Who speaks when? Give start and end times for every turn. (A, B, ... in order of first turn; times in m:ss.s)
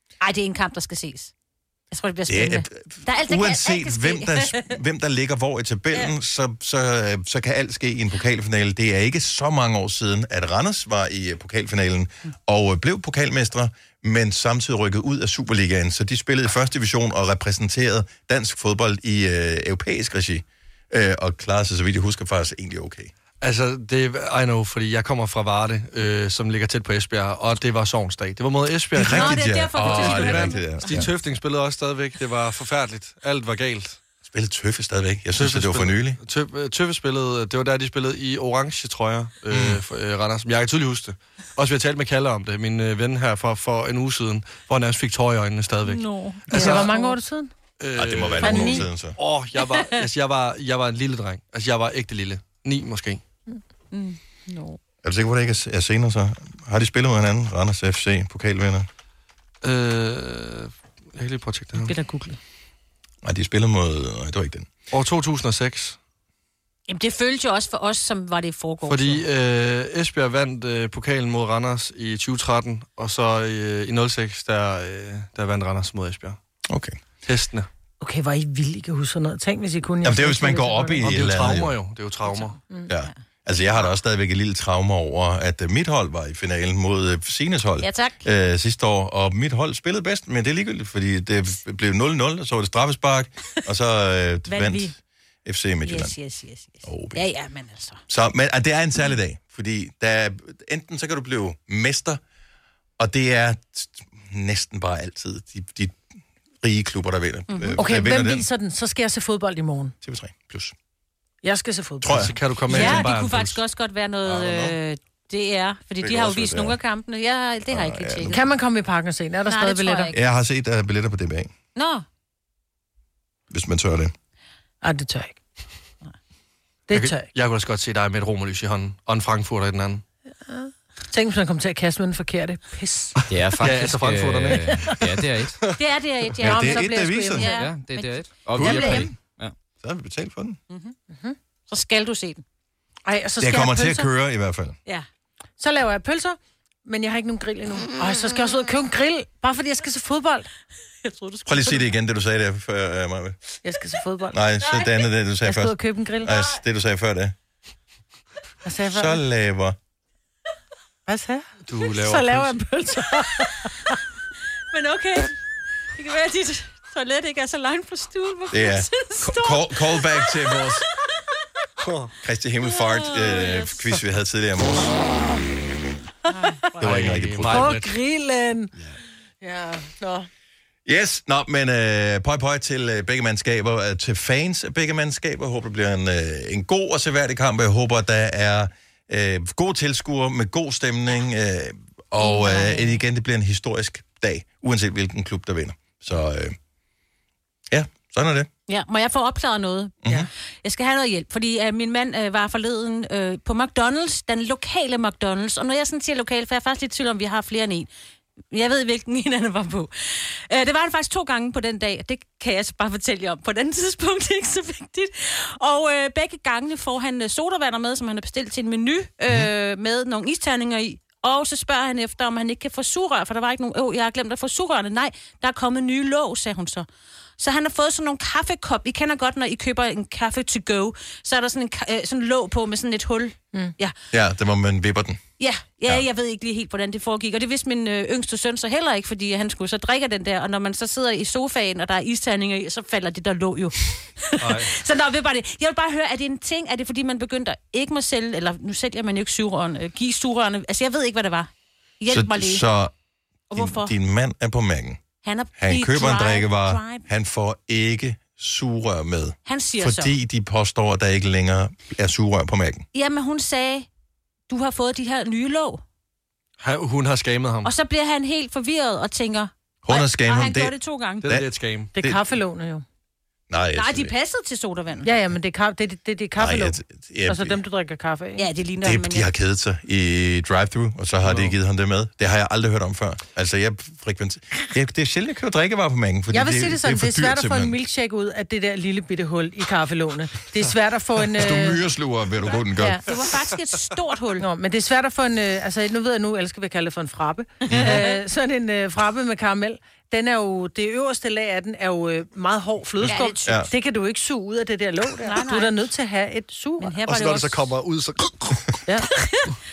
0:00.2-0:01.3 A
0:01.9-0:04.8 A
0:02.3-0:23.1 B
0:23.4-0:34.0 C
0:28.9-0:31.1 B
0:29.0-0:30.9 A
0:34.2-0:36.2 B
0:35.4-0:46.9 C
0:39.5-0:39.8 B
0:45.8-0:47.1 A
0:46.5-0:47.5 D
0:47.8-0:53.2 C
0:47.9-0:49.2 B
0:48.4-0:48.8 D
0:53.9-0:54.8 A
0:55.0-0:58.9 B
0:59.6-1:01.9 C
1:01.8-1:02.4 D
1:03.2-1:04.7 B
1:04.9-1:06.0 C
1:06.9-1:09.2 A
1:08.9-1:16.4 C
1:16.7-1:17.0 B
1:17.2-1:17.7 C
1:18.0-1:21.0 D
1:20.0-1:21.7 B
1:21.0-1:22.6 C
1:22.2-1:23.2 A
1:22.9-1:36.2 B
1:27.8-1:28.2 A
1:34.5-1:34.9 A
1:35.8-1:38.0 A
1:36.8-1:37.2 B
1:38.1-1:42.2 B
1:43.0-1:46.0 B
1:46.6-1:48.4 B
1:47.5-1:47.8 A
1:47.8-1:49.9 D
1:50.0-1:50.7 B
1:51.4-1:52.3 D
1:52.0-1:53.1 B
1:52.1-1:53.6 C
1:52.7-1:58.4 A
1:54.2-1:54.8 B
1:56.0-1:56.8 B
1:57.7-1:58.4 B
1:58.3-2:00.1 D
1:59.4-2:00.2 A
2:00.1-2:01.5 B
2:01.7-2:02.0 A
2:03.5-2:04.1 B
2:04.8-2:05.4 D
2:06.9-2:07.3 D
2:06.9-2:10.0 C
2:10.4-2:13.2 D
2:13.3-2:15.6 E
2:13.6-2:15.1 C
2:14.5-2:15.0 D
2:15.7-2:19.1 A
2:16.4-2:17.5 B
2:16.5-2:17.6 D
2:17.5-2:19.5 E
2:18.5-2:19.2 B
2:19.8-2:20.6 B
2:20.7-2:20.9 A
2:21.1-2:21.4 D
2:21.7-2:22.4 A
2:23.0-2:24.1 D
2:23.4-2:24.8 B
2:25.6-2:30.5 D
2:31.0-2:31.8 A
2:31.4-2:33.4 B
2:33.6-2:34.4 D
2:34.3-2:37.3 B
2:34.6-2:35.0 A
2:35.4-2:36.4 D
2:38.6-2:39.2 D
2:38.9-2:39.8 B
2:41.1-2:44.0 D
2:41.7-2:42.5 C
2:44.7-2:45.4 A
2:45.9-2:50.7 A
2:48.5-2:50.8 B
2:51.8-2:52.1 C
2:52.2-2:54.9 B
2:52.6-2:53.8 A
2:56.3-2:56.7 A
2:56.8-2:57.8 B
2:56.8-2:57.9 C
2:57.4-2:58.7 D
2:59.4-3:00.3 D
3:00.8-3:16.6 B
3:12.2-3:13.0 A
3:17.7-3:18.5 B
3:18.7-3:27.9 A
3:20.0-3:20.3 B
3:28.5-3:46.9 A
3:47.4-3:53.9 A
3:54.1-3:55.2 B
3:55.4-4:12.6 A
4:04.4-4:04.7 C
4:12.1-4:12.9 B
4:13.5-4:13.9 A
4:13.5-4:15.0 B
4:15.2-4:17.0 A
4:15.6-4:22.8 B
4:19.4-4:20.1 A
4:22.9-4:23.9 A
4:24.5-4:25.8 A
4:26.6-4:27.7 C
4:27.6-4:31.2 A
4:29.8-4:32.2 B
4:31.2-4:31.9 C
4:31.9-4:32.8 D
4:33.5-4:34.1 B
4:33.7-4:35.1 A
4:35.0-4:38.4 D
4:36.4-4:37.6 B
4:38.4-4:39.3 A
4:38.8-4:47.8 B
4:41.2-4:41.5 C
4:46.3-4:51.8 D
4:51.3-4:53.0 B
4:52.8-4:53.0 D
4:53.0-4:54.4 A
4:54.4-5:06.9 D
4:57.6-4:58.2 A
4:57.7-4:58.0 B
5:03.0-5:03.7 B
5:03.1-5:03.6 A
5:05.2-5:05.9 A
5:06.8-5:07.6 A
5:07.0-5:08.8 C
5:09.2-5:09.5 A